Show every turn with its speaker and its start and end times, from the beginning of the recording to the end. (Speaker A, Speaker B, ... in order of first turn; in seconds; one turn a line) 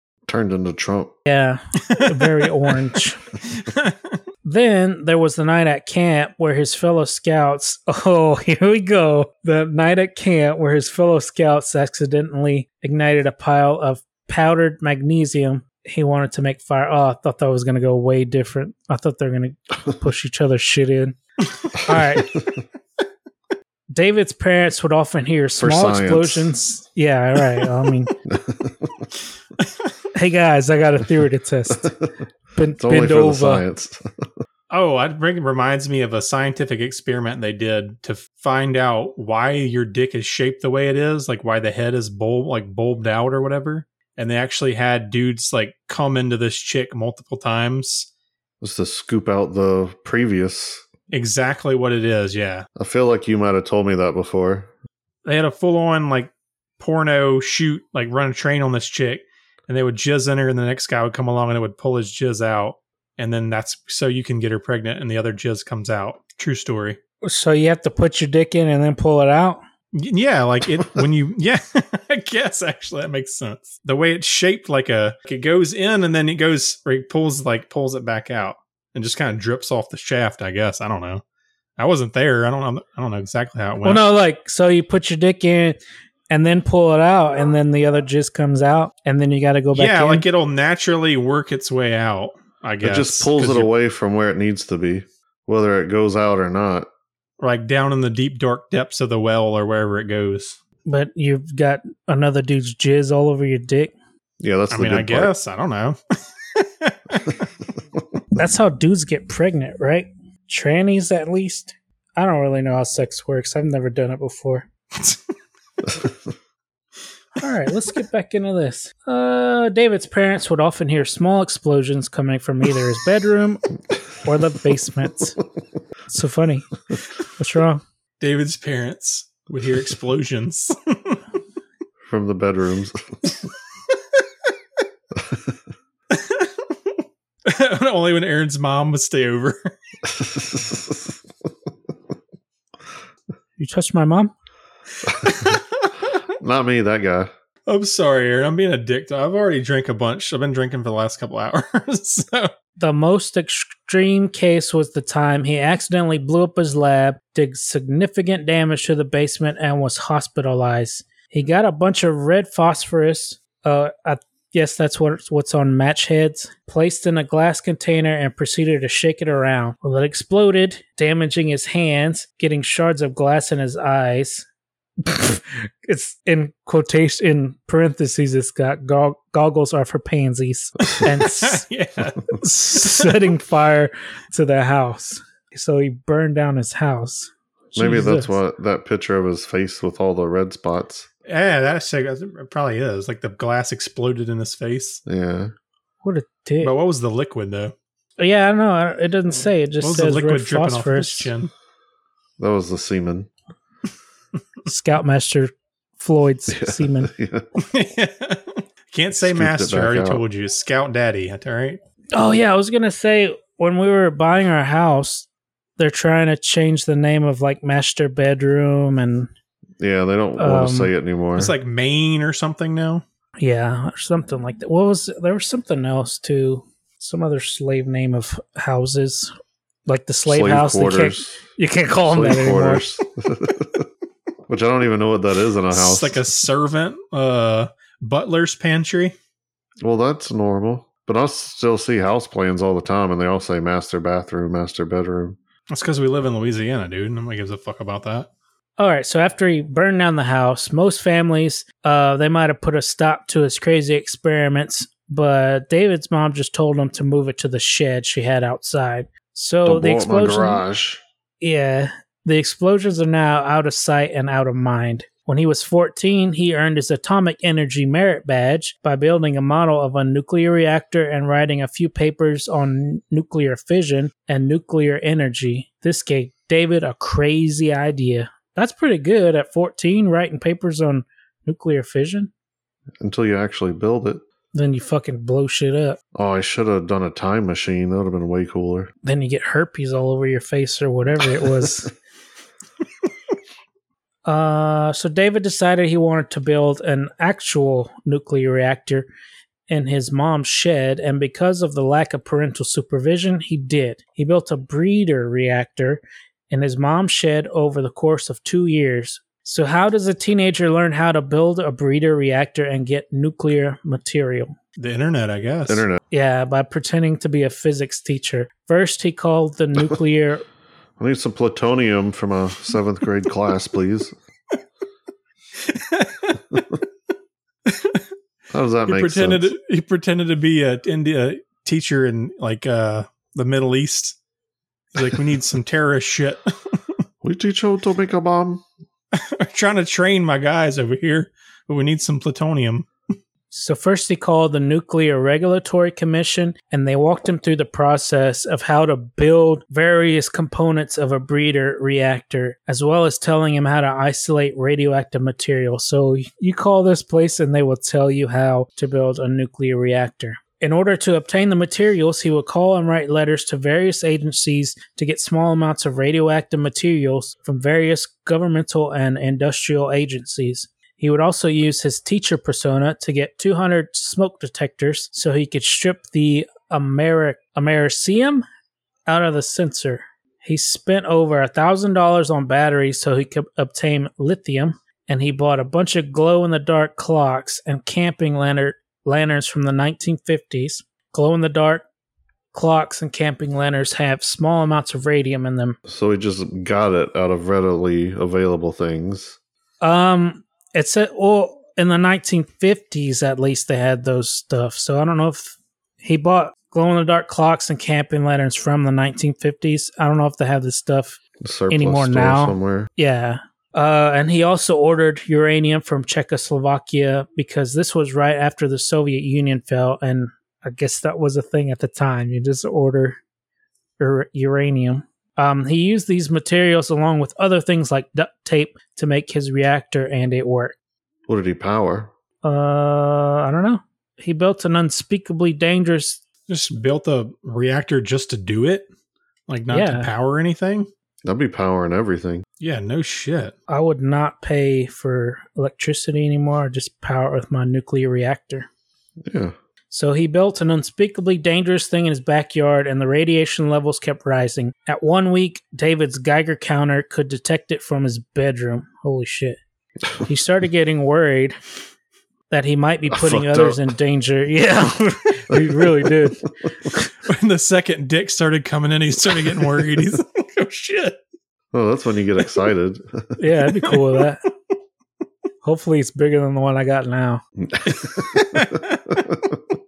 Speaker A: 0.3-1.1
Speaker B: 1.2-3.2
Speaker C: 1.9-2.5
Speaker C: 3.5-4.2
Speaker B: 4.4-21.2
Speaker B: 21.8-22.3
Speaker B: 23.9-28.1
Speaker A: 25.6-26.5
Speaker A: 28.2-29.1
Speaker C: 29.6-29.9
Speaker B: 30.1-31.9
Speaker A: 31.7-32.1
Speaker B: 32.5-33.6
Speaker A: 32.8-34.3
Speaker C: 34.7-48.1
Speaker A: 48.6-50.8
Speaker C: 51.1-52.6
Speaker A: 52.8-54.7
Speaker C: 55.2-67.0
Speaker B: 67.2-69.6
Speaker C: 69.9-81.2
Speaker C: 81.8-84.1
Speaker B: 83.8-85.8
Speaker B: 86.3-90.2
Speaker C: 89.7-93.7
Speaker A: 92.8-96.9
Speaker C: 97.4-100.6
Speaker B: 100.8-103.9
Speaker A: 104.4-105.3
Speaker C: 104.7-106.0
Speaker C: 106.5-107.4
Speaker B: 108.3-114.7
Speaker B: 117.4-123.6
Speaker B: 124.2-125.4
Speaker B: 126.1-126.7
Speaker B: 127.3-127.8
Speaker C: 128.2-131.2
Speaker A: 132.0-133.2
Speaker C: 136.1-136.9
Speaker C: 137.4-139.7
Speaker A: 140.1-141.1
Speaker B: 143.6-144.3
Speaker C: 145.1-145.9
Speaker A: 146.4-147.3
Speaker C: 147.7-152.5
Speaker B: 152.8-174.4
Speaker B: 175.0-181.6
Speaker C: 181.1-183.2
Speaker B: 182.4-188.3
Speaker A: 187.7-191.1
Speaker C: 191.2-195.0
Speaker A: 195.1-195.5
Speaker B: 196.0-196.7
Speaker C: 196.6-197.7
Speaker B: 198.2-201.3
Speaker C: 199.8-201.5
Speaker A: 202.4-203.3
Speaker B: 204.7-207.1
Speaker A: 206.5-207.5
Speaker C: 207.6-211.8
Speaker A: 209.2-210.2
Speaker B: 212.1-215.3
Speaker B: 215.8-219.3
Speaker A: 219.8-221.5
Speaker B: 220.4-220.9
Speaker C: 221.3-223.0
Speaker B: 223.4-229.3
Speaker B: 229.9-232.9
Speaker A: 230.2-231.4
Speaker A: 232.0-233.9
Speaker A: 234.5-236.2
Speaker C: 235.7-239.2
Speaker A: 239.8-245.4
Speaker C: 245.7-248.3
Speaker B: 248.8-260.6
Speaker A: 259.6-261.0
Speaker B: 261.4-282.3
Speaker A: 283.0-284.2
Speaker B: 284.5-286.0
Speaker A: 286.1-288.9
Speaker B: 289.0-291.9
Speaker B: 294.2-299.1
Speaker B: 299.7-314.5
Speaker C: 314.8-315.9
Speaker A: 315.7-316.0
Speaker B: 316.1-320.4
Speaker A: 321.0-324.1
Speaker C: 325.6-326.6
Speaker C: 327.6-328.0
Speaker A: 328.5-329.5
Speaker C: 328.9-334.2
Speaker C: 334.9-336.7
Speaker A: 337.2-338.6
Speaker C: 339.1-342.9
Speaker B: 343.5-378.4
Speaker B: 379.1-391.9
Speaker B: 392.5-395.8
Speaker A: 395.9-399.4
Speaker B: 399.8-411.2
Speaker A: 411.4-412.9
Speaker B: 411.7-423.2
Speaker B: 424.0-430.8
Speaker A: 431.3-432.1
Speaker B: 432.4-436.2
Speaker C: 436.5-438.9
Speaker C: 439.5-440.9
Speaker B: 439.7-440.1
Speaker A: 441.2-442.4
Speaker C: 442.6-443.5
Speaker B: 443.7-448.7
Speaker A: 449.2-449.5
Speaker B: 449.9-459.6
Speaker B: 460.2-461.6
Speaker B: 462.5-467.1
Speaker A: 463.1-463.9
Speaker A: 465.5-466.3
Speaker C: 467.2-471.2
Speaker A: 471.7-473.4
Speaker B: 473.4-474.4
Speaker B: 475.6-477.4
Speaker A: 477.6-479.6
Speaker C: 477.9-479.3